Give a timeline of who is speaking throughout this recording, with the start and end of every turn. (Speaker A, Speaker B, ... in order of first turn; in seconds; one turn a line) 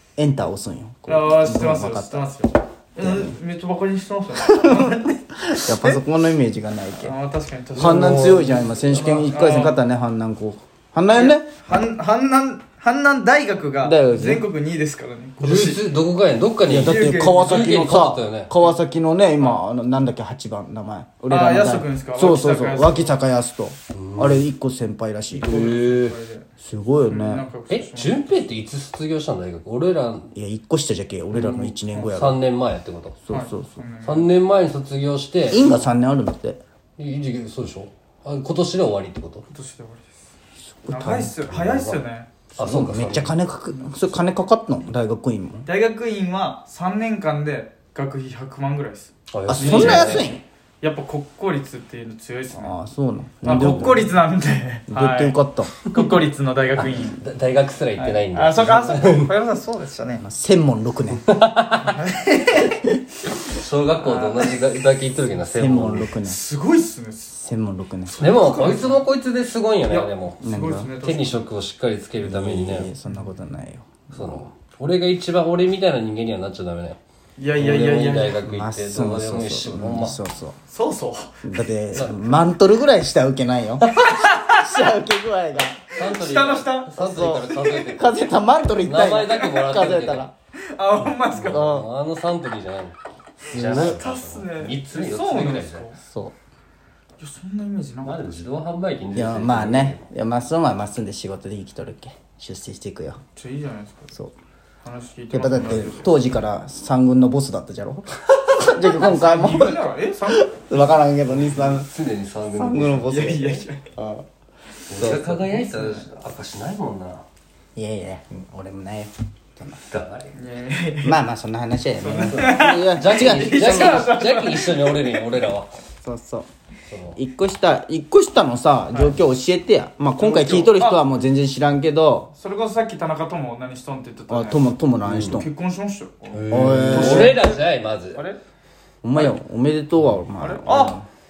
Speaker A: 0.2-2.3
Speaker B: 1.1-6.0
Speaker A: 3.0-3.4
Speaker A: 4.4-7.2
Speaker B: 7.0-9.9
Speaker A: 7.7-11.5
Speaker B: 11.1-15.8
Speaker A: 13.8-14.4
Speaker C: 15.4-18.5
Speaker A: 16.7-25.7
Speaker B: 16.7-17.9
Speaker B: 21.3-23.2
Speaker C: 23.9-24.5
Speaker B: 25.3-28.3
Speaker C: 25.4-26.2
Speaker A: 26.6-27.5
Speaker C: 27.7-30.3
Speaker A: 30.3-32.4
Speaker C: 31.3-33.2
Speaker A: 33.2-33.8
Speaker B: 33.3-34.3
Speaker C: 34.0-35.9
Speaker A: 35.5-36.6
Speaker C: 37.0-39.5
Speaker B: 39.5-40.1
Speaker A: 40.8-41.4
Speaker B: 40.9-42.3
Speaker C: 41.5-42.0
Speaker A: 42.6-45.7
Speaker C: 42.6-43.4
Speaker B: 45.7-52.8
Speaker C: 49.3-50.3
Speaker A: 49.5-50.4
Speaker A: 52.5-54.1
Speaker B: 53.4-57.2
Speaker C: 53.5-54.0
Speaker A: 54.9-55.8
Speaker C: 56.8-59.3
Speaker B: 58.0-60.2
Speaker A: 60.2-61.3
Speaker C: 61.3-62.0
Speaker B: 61.8-62.8
Speaker C: 63.5-66.1
Speaker B: 64.0-64.7
Speaker A: 65.5-66.4
Speaker B: 66.2-67.4
Speaker A: 67.3-68.3
Speaker B: 68.1-69.0
Speaker C: 68.2-70.4
Speaker B: 69.9-71.5
Speaker A: 70.4-70.9
Speaker C: 71.0-72.9
Speaker A: 72.2-74.5
Speaker B: 73.1-73.4
Speaker C: 74.1-77.0
Speaker B: 77.4-78.5
Speaker C: 77.6-80.2
Speaker A: 78.5-80.6
Speaker B: 80.7-81.3
Speaker A: 81.4-85.8
Speaker C: 81.9-82.4
Speaker B: 83.8-85.0
Speaker B: 85.9-87.9
Speaker C: 86.0-88.2
Speaker A: 87.0-90.3
Speaker C: 88.8-90.3
Speaker B: 90.5-91.8
Speaker C: 91.3-93.0
Speaker A: 91.4-91.9
Speaker A: 93.5-94.0
Speaker C: 93.5-95.9
Speaker B: 93.5-96.0
Speaker A: 96.1-96.3
Speaker B: 97.2-98.2
Speaker C: 98.0-100.0
Speaker A: 99.2-103.2
Speaker B: 103.3-104.1
Speaker B: 104.8-106.2
Speaker A: 105.3-111.9
Speaker B: 108.7-110.9
Speaker C: 111.4-113.2
Speaker A: 112.5-114.2
Speaker B: 112.9-113.9
Speaker C: 114.9-117.2
Speaker B: 114.9-116.1
Speaker A: 115.0-115.3
Speaker A: 117.8-119.8
Speaker C: 119.9-120.3
Speaker B: 120.3-121.2
Speaker A: 121.0-124.1
Speaker B: 122.0-125.3
Speaker C: 122.2-125.7
Speaker A: 126.0-126.5
Speaker C: 126.9-127.2
Speaker A: 127.2-132.3
Speaker B: 128.9-129.2
Speaker B: 130.2-131.0
Speaker B: 132.3-138.4
Speaker A: 134.3-135.5
Speaker C: 135.1-135.4
Speaker C: 136.3-138.2
Speaker A: 136.5-137.4
Speaker A: 139.0-141.1
Speaker B: 140.4-141.0